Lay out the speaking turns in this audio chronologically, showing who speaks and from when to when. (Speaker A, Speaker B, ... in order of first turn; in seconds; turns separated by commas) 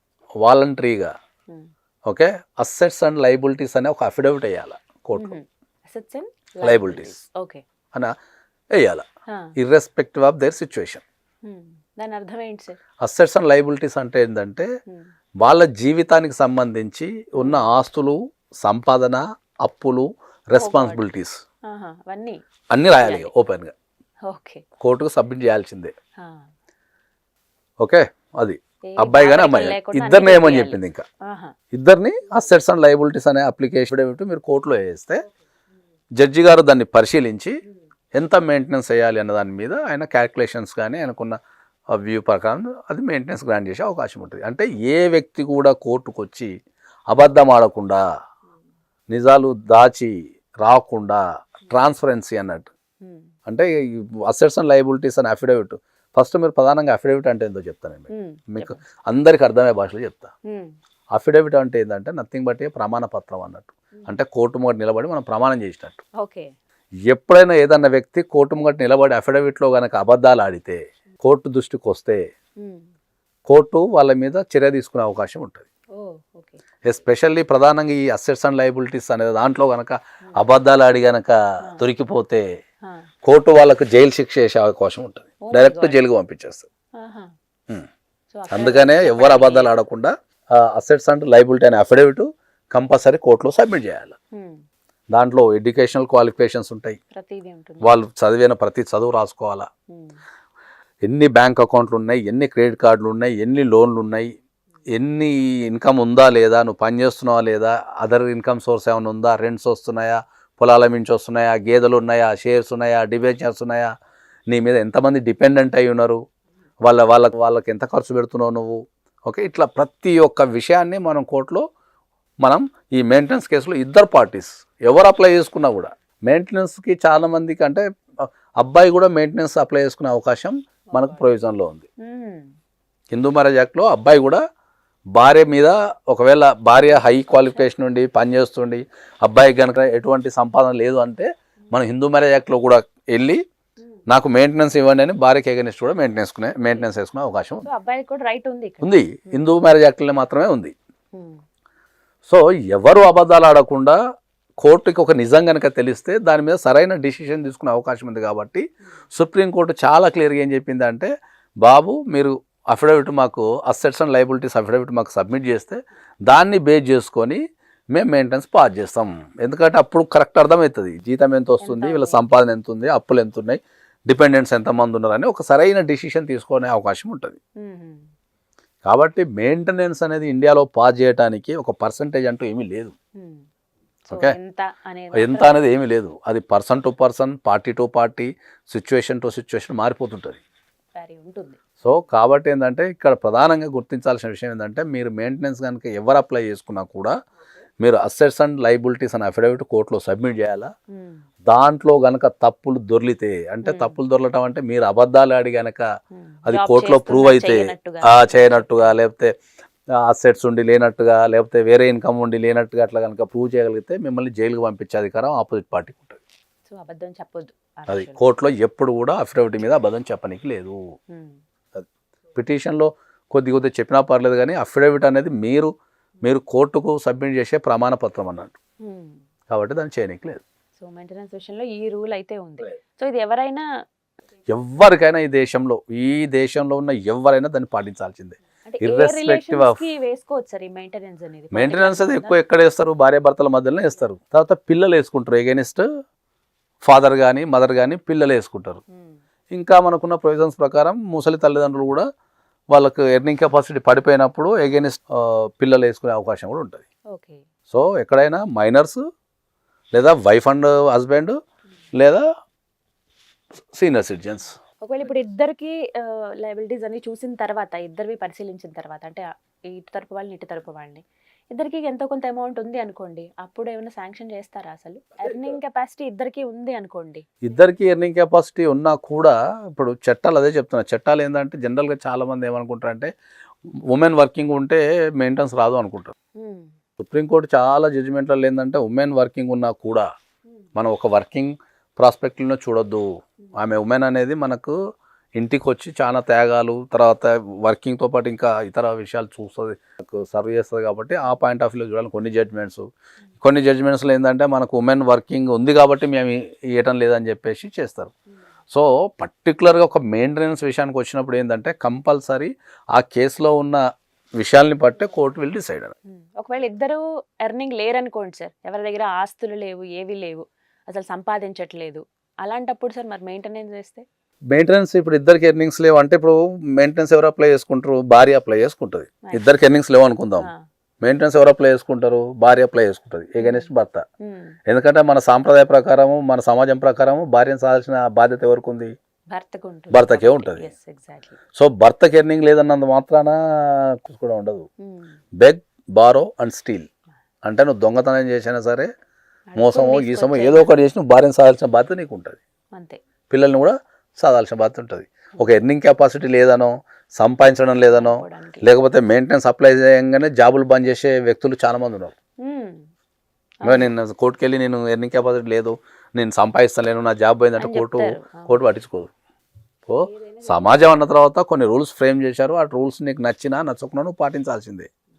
Speaker A: 0.4-1.1, Speaker A: 2.1-5.4, Speaker B: 5.1-7.6, Speaker A: 6.6-7.2, Speaker A: 8.8-9.0, Speaker A: 9.6-11.0, Speaker B: 11.4-12.8, Speaker A: 13.0-14.7, Speaker A: 15.4-21.3, Speaker B: 20.6-21.0, Speaker B: 21.7-23.3, Speaker A: 22.7-23.7, Speaker B: 24.3-24.6, Speaker A: 24.8-25.9, Speaker B: 26.2-26.4, Speaker A: 27.8-31.0, Speaker B: 28.8-31.5, Speaker A: 31.7-35.2, Speaker A: 36.2-37.6, Speaker A: 38.1-41.4, Speaker A: 41.9-46.5, Speaker A: 47.1-48.0, Speaker A: 49.1-52.7, Speaker B: 53.0-53.3, Speaker A: 53.5-60.3, Speaker B: 58.1-58.8, Speaker B: 60.5-60.7, Speaker A: 61.1-66.0, Speaker B: 66.2-66.5, Speaker A: 67.1-72.2, Speaker B: 72.6-72.9, Speaker A: 73.5-75.7, Speaker B: 75.9-76.6, Speaker A: 76.8-82.4, Speaker A: 83.2-86.7, Speaker B: 85.4-86.0, Speaker B: 87.0-87.3, Speaker B: 88.3-89.7, Speaker A: 88.5-94.1, Speaker B: 94.3-94.6, Speaker A: 95.1-97.0, Speaker B: 97.1-98.0, Speaker A: 97.8-99.7, Speaker B: 99.9-100.2, Speaker A: 101.0-104.3, Speaker A: 104.9-113.9, Speaker A: 114.5-116.2, Speaker A: 116.8-121.6, Speaker A: 122.4-131.8, Speaker B: 130.9-131.2, Speaker B: 132.0-132.5, Speaker A: 133.1-134.4, Speaker A: 135.1-143.4, Speaker B: 136.8-137.7, Speaker A: 144.1-147.7, Speaker B: 147.6-149.5, Speaker A: 148.8-150.7, Speaker B: 151.1-151.4, Speaker A: 152.3-154.0, Speaker A: 154.6-161.1, Speaker A: 161.6-167.4, Speaker A: 167.9-177.4, Speaker B: 171.6-172.2, Speaker B: 177.6-178.1, Speaker A: 178.8-182.9, Speaker B: 183.2-183.4, Speaker B: 184.1-185.6, Speaker A: 184.1-184.4, Speaker A: 185.1-190.4, Speaker B: 190.9-191.6, Speaker A: 191.8-197.1, Speaker A: 197.8-200.7, Speaker B: 200.9-201.2, Speaker A: 201.4-205.8, Speaker B: 203.6-204.0, Speaker B: 206.1-209.0, Speaker A: 206.4-209.3, Speaker A: 209.9-216.2, Speaker B: 216.7-218.2, Speaker A: 217.9-220.8, Speaker B: 221.1-221.4, Speaker A: 221.7-225.7, Speaker A: 226.2-228.6, Speaker B: 228.8-229.2, Speaker A: 229.5-230.4, Speaker B: 230.8-233.7, Speaker A: 234.5-239.8, Speaker B: 238.6-242.4, Speaker A: 241.5-245.8, Speaker A: 246.8-248.8, Speaker B: 248.9-249.2, Speaker A: 249.5-252.1, Speaker A: 252.7-256.8, Speaker B: 257.1-257.4, Speaker A: 257.7-259.0, Speaker A: 259.9-261.4, Speaker A: 261.9-262.2, Speaker A: 263.7-264.6, Speaker B: 264.8-277.4, Speaker A: 275.2-275.6, Speaker A: 277.4-283.1, Speaker A: 283.9-286.1, Speaker B: 286.4-286.7, Speaker A: 287.0-290.1, Speaker A: 290.8-294.8, Speaker A: 295.4-302.9, Speaker A: 303.4-308.1, Speaker A: 308.7-313.8, Speaker A: 314.4-315.9, Speaker B: 316.1-324.0, Speaker A: 324.5-330.5, Speaker A: 331.0-334.0, Speaker B: 333.4-333.7, Speaker B: 334.2-334.6, Speaker A: 334.7-338.9, Speaker B: 339.3-341.4, Speaker A: 339.9-340.7, Speaker A: 341.6-344.7, Speaker B: 344.8-345.2, Speaker A: 345.4-346.9, Speaker A: 347.4-348.9, Speaker B: 349.5-350.7, Speaker A: 349.6-352.4, Speaker B: 352.7-353.0, Speaker A: 353.3-362.1, Speaker B: 357.9-358.7, Speaker B: 362.4-362.9, Speaker A: 363.6-369.1, Speaker B: 363.6-363.9, Speaker B: 367.6-368.5, Speaker A: 369.9-374.9, Speaker B: 370.0-370.9